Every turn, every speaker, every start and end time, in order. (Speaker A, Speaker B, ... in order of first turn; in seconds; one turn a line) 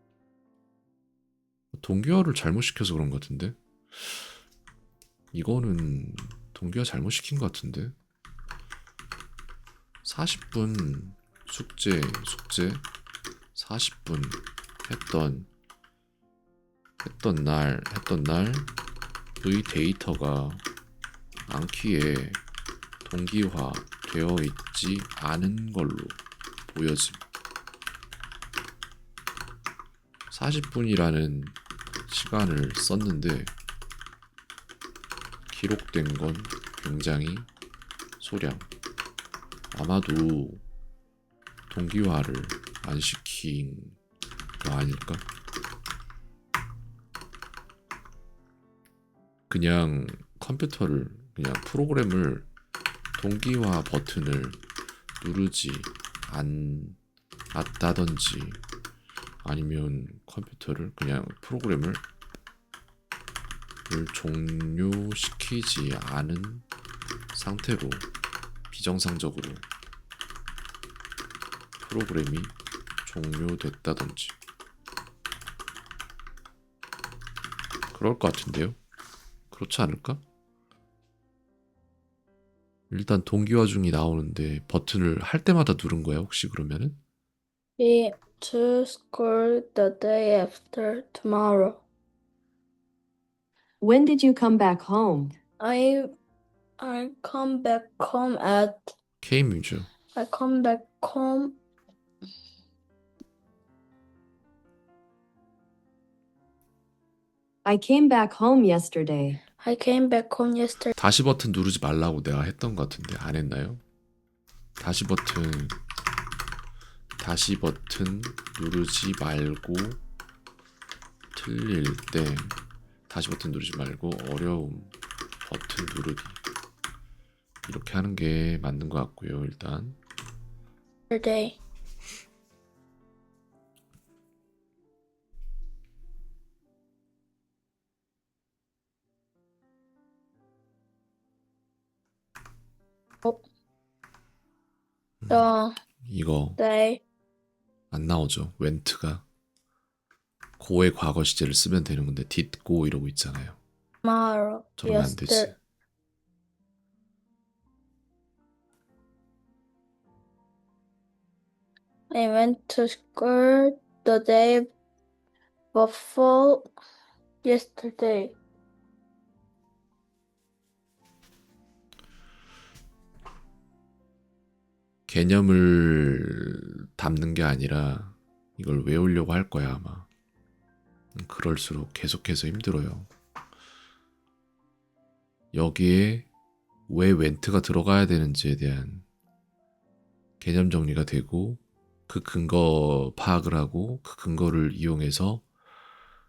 Speaker A: 1.7-4.3
Speaker A: 5.3-7.9
Speaker A: 10.0-12.8
Speaker A: 13.5-15.5
Speaker A: 17.0-18.7
Speaker A: 19.4-20.6
Speaker A: 21.5-22.4
Speaker A: 23.1-27.2
Speaker A: 30.3-31.6
Speaker A: 32.1-33.5
Speaker A: 35.5-37.5
Speaker A: 38.2-38.7
Speaker A: 39.7-40.6
Speaker A: 41.7-44.0
Speaker A: 44.6-45.2
Speaker A: 49.5-52.5
Speaker A: 53.2-54.6
Speaker A: 55.2-57.0
Speaker A: 57.5-58.6
Speaker A: 59.4-62.0
Speaker A: 63.9-66.7
Speaker A: 67.3-68.1
Speaker A: 68.7-69.7
Speaker A: 71.8-72.5
Speaker A: 73.0-74.4
Speaker A: 77.9-78.8
Speaker A: 79.5-80.2
Speaker A: 82.9-87.0
Speaker B: 87.8-91.8
Speaker C: 93.8-95.3
Speaker B: 95.6-96.1
Speaker B: 96.8-98.9
Speaker A: 99.2-99.9
Speaker B: 100.2-101.6
Speaker C: 107.7-109.4
Speaker B: 109.6-110.9
Speaker A: 111.0-113.8
Speaker A: 114.8-115.8
Speaker A: 117.2-120.0
Speaker A: 121.3-122.5
Speaker A: 123.1-124.9
Speaker A: 125.5-126.4
Speaker A: 127.7-130.0
Speaker B: 131.1-131.6
Speaker A: 145.2-145.5
Speaker B: 145.3-145.8
Speaker A: 146.1-146.6
Speaker B: 146.6-147.0
Speaker A: 147.9-149.2
Speaker A: 150.6-153.6
Speaker B: 154.0-155.6
Speaker A: 154.8-155.6
Speaker B: 162.1-164.7
Speaker B: 165.7-166.7
Speaker B: 167.4-168.4
Speaker A: 175.1-180.1
Speaker A: 181.2-183.1
Speaker A: 185.5-186.3
Speaker A: 186.9-189.1
Speaker A: 190.4-195.4